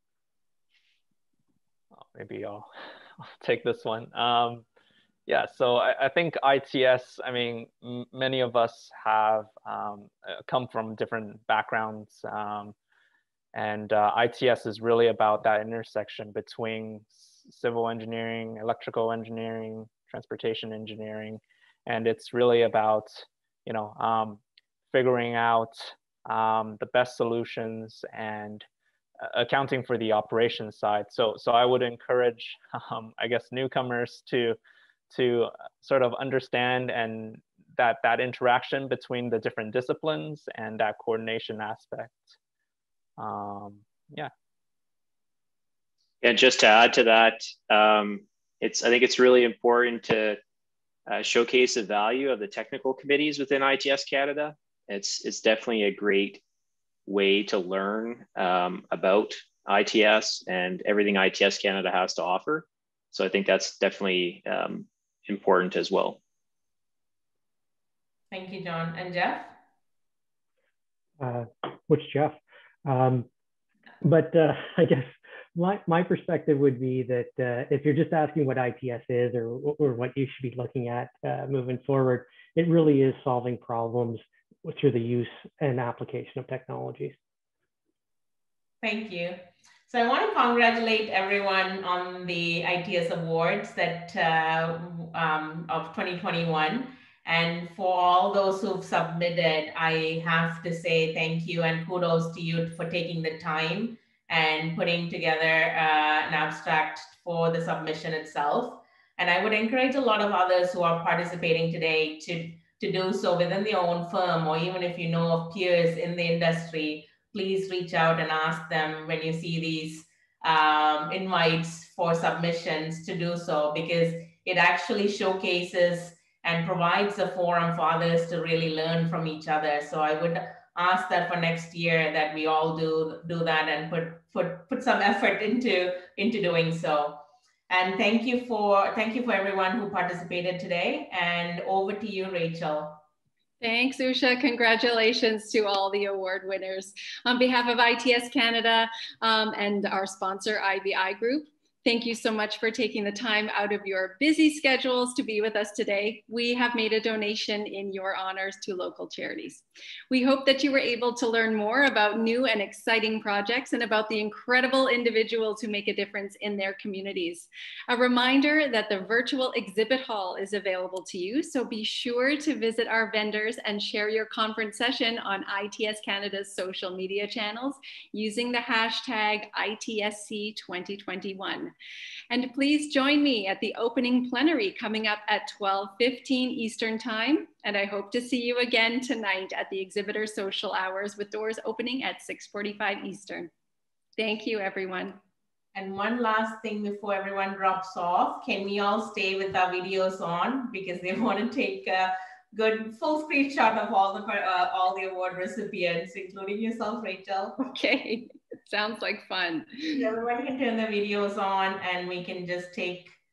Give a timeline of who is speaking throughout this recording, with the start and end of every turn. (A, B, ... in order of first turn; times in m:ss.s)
0:02.0-0:02.7 A
0:03.2-0:04.7 A
0:05.3-0:12.8 A
0:13.5-0:28.7 A
0:29.2-0:34.6 A
0:35.1-0:42.3 A
0:43.2-0:44.3 A
0:46.2-0:50.4 B
0:51.1-0:56.4 B
0:57.1-1:06.2 B
1:08.3-1:09.5 C
1:11.2-1:13.3 D
1:14.0-1:27.2 D
1:28.8-2:23.0 C
2:23.6-3:01.7 E
3:02.3-3:13.5 E
3:14.2-3:15.2 E
3:15.8-3:27.6 C
3:27.6-3:30.0 E
3:29.9-3:33.2 C